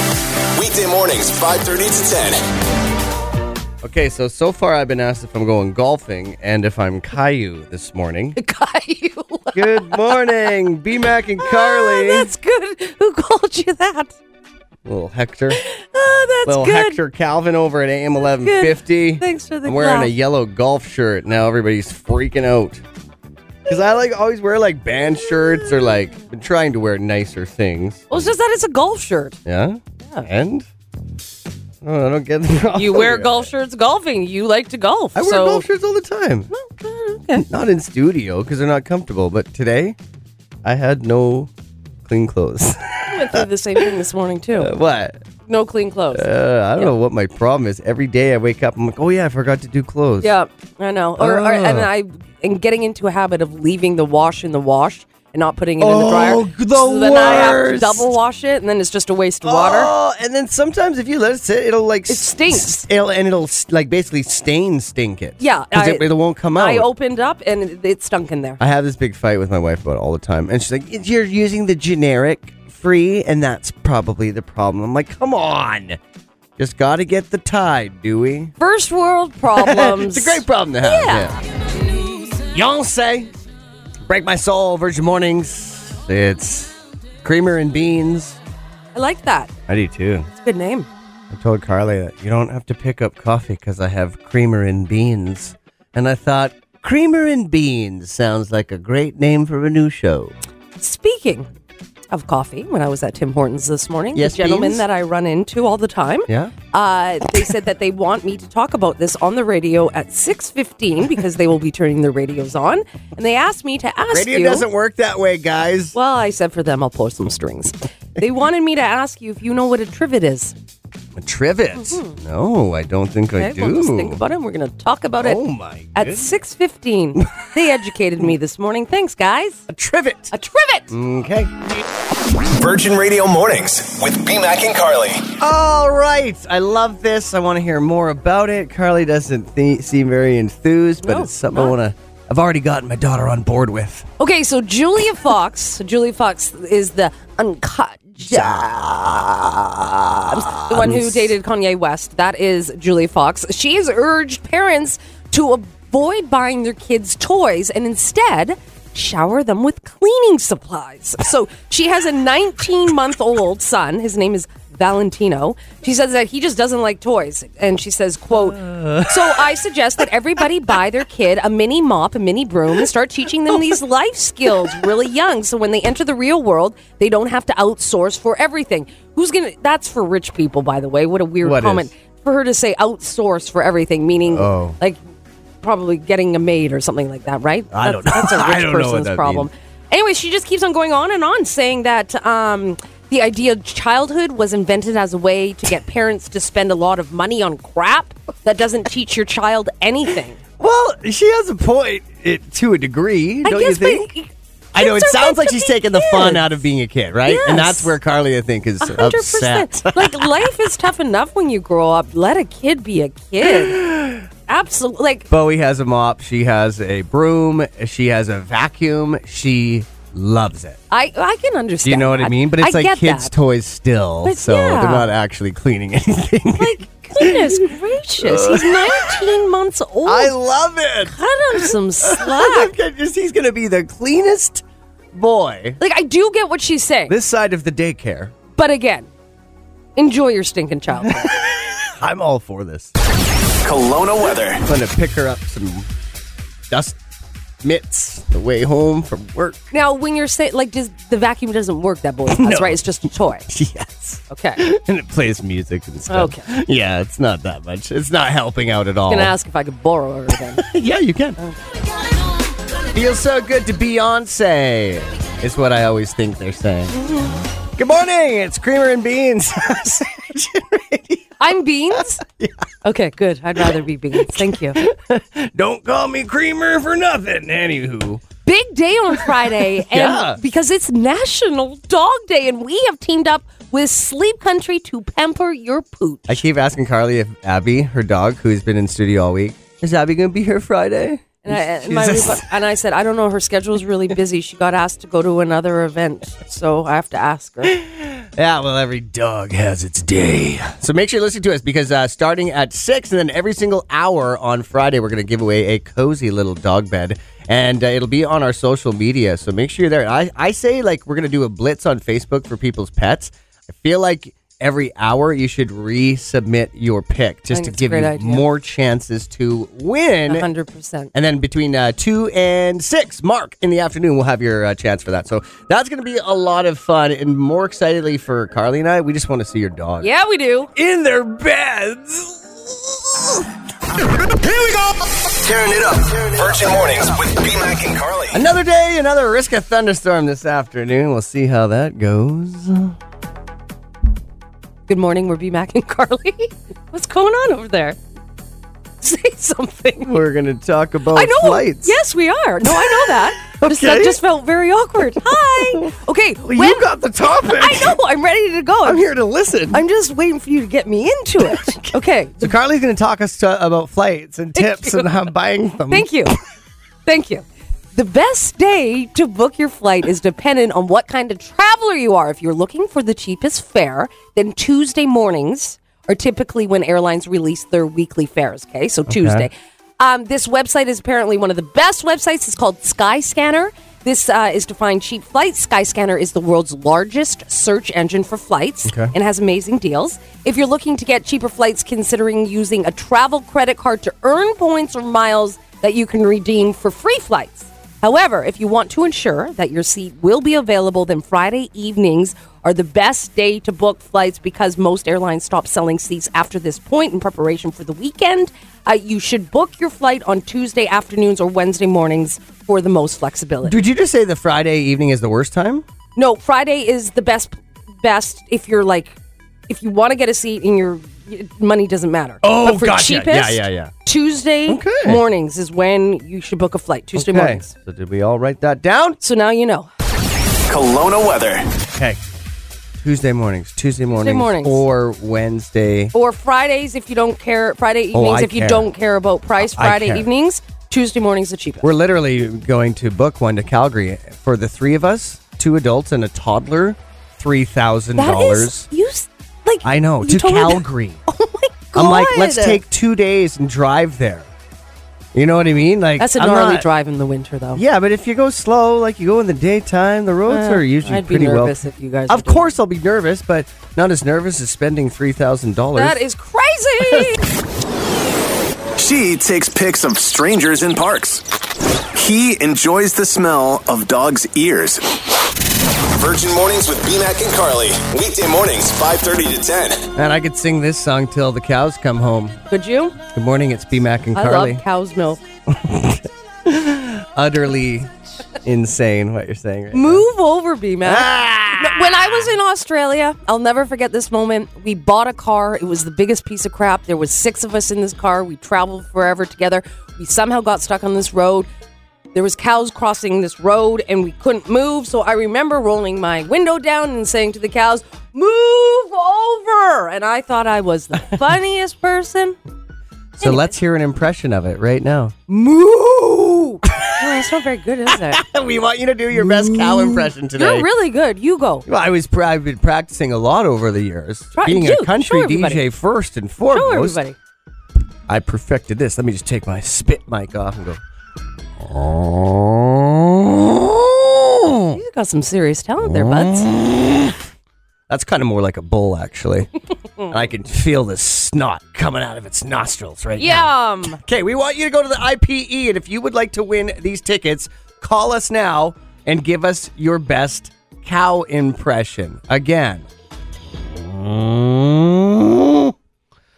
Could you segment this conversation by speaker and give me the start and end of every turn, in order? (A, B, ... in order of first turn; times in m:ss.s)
0:00.5-0:02.4 A
0:03.8-0:08.4 B
0:08.4-0:10.4 C
0:09.5-0:12.3 B
0:11.4-0:14.2 C
0:14.8-0:15.6 B
0:15.5-0:17.0 C
0:16.5-0:22.8 B
0:18.4-0:20.1 C
0:23.7-0:28.3 B
0:28.1-0:29.4 C
0:29.4-0:30.7 B
0:31.8-0:33.5 B
0:32.7-0:35.7 C
0:35.2-0:36.5 B
0:36.5-0:37.5 C
0:37.4-0:40.0 B
0:40.6-0:41.5 B
0:42.0-0:43.9 B
0:43.1-0:44.7 C
0:44.6-0:45.2 B
0:45.5-0:46.9 C
0:46.1-0:50.3 B
0:50.2-0:59.9 C
0:51.2-0:51.9 B
0:55.8-0:58.1 B
0:59.4-1:06.9 B
1:02.1-1:02.9 C
1:05.4-1:08.6 C
1:08.6-1:16.0 B
1:16.6-1:18.5 B
1:18.6-1:21.4 C
1:19.6-1:21.4 B
1:22.4-1:23.3 B
1:24.1-1:28.4 B
1:28.9-1:29.5 C
1:29.7-1:30.3 B
1:30.3-1:30.9 C
1:31.3-1:40.3 B
1:40.8-1:41.5 C
1:42.1-1:54.7 C
1:44.2-1:44.8 B
1:46.3-1:46.5 B
1:54.1-1:56.0 B
1:55.9-2:00.5 C
2:01.2-2:04.3 B
2:01.8-2:02.2 C
2:03.4-2:05.4 C
2:05.2-2:06.3 B
2:06.0-2:09.6 C
2:09.7-2:10.3 B
2:10.3-2:10.9 C
2:10.9-2:11.5 B
2:12.5-2:15.3 A
2:15.4-2:24.1 B
2:21.0-2:21.7 C
2:24.2-2:28.7 C
2:28.3-2:31.3 B
2:30.3-3:05.0 C
2:48.3-2:49.5 B
3:01.4-3:01.9 B
3:04.3-3:04.8 B
3:05.6-3:20.4 C
3:07.7-3:09.5 B
3:20.6-3:24.1 B
3:23.4-3:26.5 C
3:24.7-3:30.5 B
3:27.2-3:28.0 C
3:28.8-3:33.8 C
3:33.4-3:34.3 B
3:34.5-3:35.3 C
3:35.3-3:40.8 B
3:40.9-3:43.3 C
3:41.8-3:49.3 B
3:44.2-3:45.1 C
3:46.6-3:50.3 C
3:50.0-3:55.8 B
3:51.1-3:52.8 C
3:55.8-3:57.2 C
3:57.1-3:58.4 B
3:58.6-3:59.1 C
4:00.0-4:01.3 C
4:00.9-4:02.9 B
4:03.6-4:04.6 A
4:04.6-4:05.9 B
4:06.7-4:07.0 B
4:07.6-4:09.6 B
4:09.7-4:13.5 C
4:12.3-4:12.9 B
4:13.5-4:19.3 B
4:14.3-4:14.6 C
4:16.1-4:16.5 C
4:19.1-4:20.7 C
4:20.6-4:21.4 B
4:22.9-4:27.0 B
4:26.9-4:27.4 C
4:27.8-4:31.3 B
4:31.4-4:32.2 C
4:32.0-4:32.6 B
4:32.8-4:34.8 C
4:33.6-4:38.2 B
4:38.4-4:46.4 C
4:39.1-4:40.4 B
4:46.3-4:52.5 B
4:51.4-4:57.8 C
4:57.7-5:20.5 B
5:17.5-5:18.5 C
5:20.3-5:21.1 C
5:21.1-5:30.1 B
5:30.0-5:30.7 C
5:30.8-5:33.5 B
5:35.4-5:36.2 B
5:35.6-5:38.4 A
5:38.3-5:43.0 B
5:44.9-5:48.0 C
5:49.0-5:50.2 C
5:50.0-5:52.0 B
5:51.1-5:56.9 C
5:52.6-5:54.2 B
5:55.6-5:55.9 B
5:56.4-5:58.0 B
5:57.4-5:59.1 C
5:58.8-5:59.8 B
5:59.7-6:02.6 C
6:01.4-6:01.7 B
6:02.4-6:06.1 B
6:04.6-6:05.1 C
6:05.9-6:06.4 C
6:07.1-6:53.8 C
6:19.1-6:19.5 B
6:28.9-6:29.1 B
6:53.6-6:55.8 B
6:56.2-6:59.2 C
6:59.7-7:07.7 C
7:02.4-7:03.9 B
7:04.7-7:05.2 B
7:07.2-7:09.2 B
7:09.2-7:09.9 C
7:10.7-7:11.7 A
7:11.9-7:12.2 B
7:13.0-7:16.1 B
7:14.1-7:14.8 C
7:16.1-7:21.9 C
7:18.1-7:18.9 B
7:19.6-7:20.3 B
7:21.8-7:28.8 B
7:28.2-7:32.8 C
7:29.8-7:31.2 B
7:32.0-7:34.5 B
7:35.3-7:36.9 B
7:36.2-7:37.8 C
7:37.8-7:41.7 B
7:40.5-7:42.7 C
7:42.3-7:46.2 B
7:45.9-7:47.5 C
7:47.0-7:47.3 B
7:49.0-7:51.4 A
7:52.1-7:55.1 A
7:56.1-8:00.1 A
8:00.1-8:02.6 B
8:02.7-8:03.2 C
8:03.3-8:04.8 B
8:04.3-8:05.4 C
8:05.7-8:08.1 B
8:08.6-8:10.2 B
8:09.9-8:21.7 C
8:11.0-8:12.5 B
8:22.3-8:32.6 C
8:33.4-8:33.7 C
8:33.4-8:37.4 B
8:37.2-8:38.4 C
8:38.1-8:40.9 B
8:39.3-8:41.9 C
8:41.9-8:47.2 B
8:44.5-8:45.8 C
8:46.7-8:47.4 C
8:48.3-8:51.0 B
8:51.8-8:55.0 B
8:54.9-8:56.7 C
8:56.0-8:57.4 B
8:58.1-8:59.7 B
9:00.3-9:13.0 B
9:03.4-9:04.2 C
9:13.9-9:15.9 B